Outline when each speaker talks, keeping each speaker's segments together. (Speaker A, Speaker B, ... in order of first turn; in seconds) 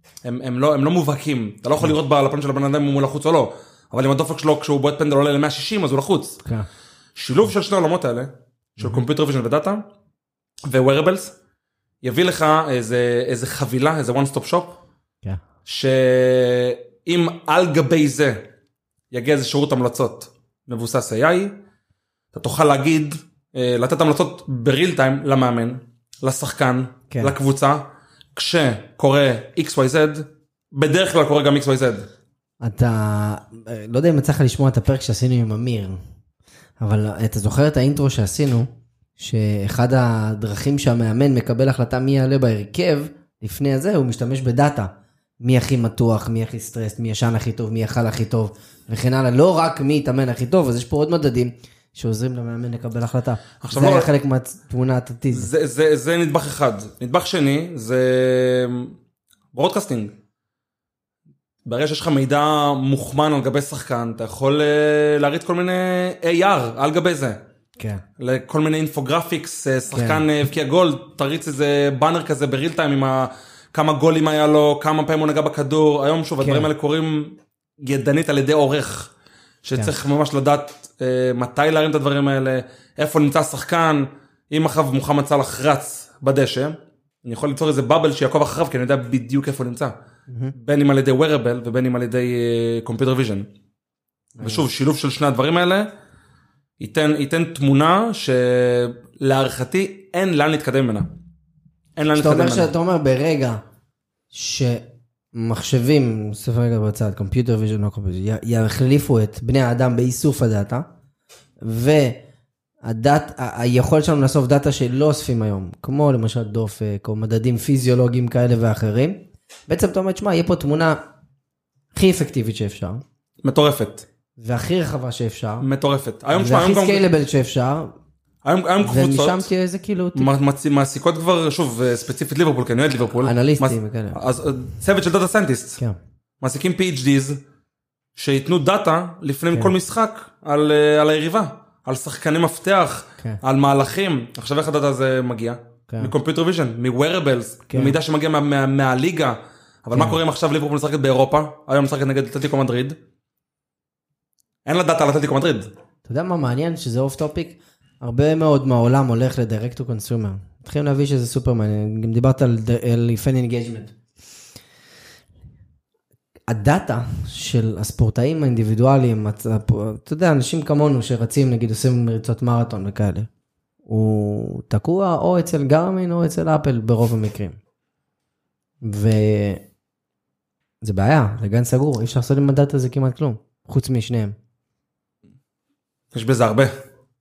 Speaker A: 0.2-6.4, 7.2-9.8, 10.7-11.3, 12.0-14.8, 15.7-18.4, 19.1-21.5, 22.3-27.8, 28.3-32.1, 53.6-54.1, 55.3-58.9, 59.5-60.1, 61.6-67.4, 68.2-79.1, 79.6-89.9, 90.5-93.5, 94.4-95.9, 96.8-101.1, 102.0-102.7, 123.4-124.0, 125.6-127.0, 128.4-129.5, 130.2-135.8, 136.4-137.4, 138.2-152.9, 154.7-155.7, 186.1-186.7
Speaker B: 27.1-27.4, 32.6-36.0, 36.8-55.5, 69.9-70.2, 76.4-76.7, 90.3-90.5, 94.4-94.6, 102.2-103.6, 104.3-110.8, 111.6-112.2, 112.8-121.0, 121.9-123.0, 124.4-125.6, 126.3-127.9, 128.8-130.3, 133.2-134.2, 147.7-148.0, 149.9-150.2, 156.1-163.9, 166.5-173.3, 173.9-177.6, 178.8-179.6, 180.8-184.3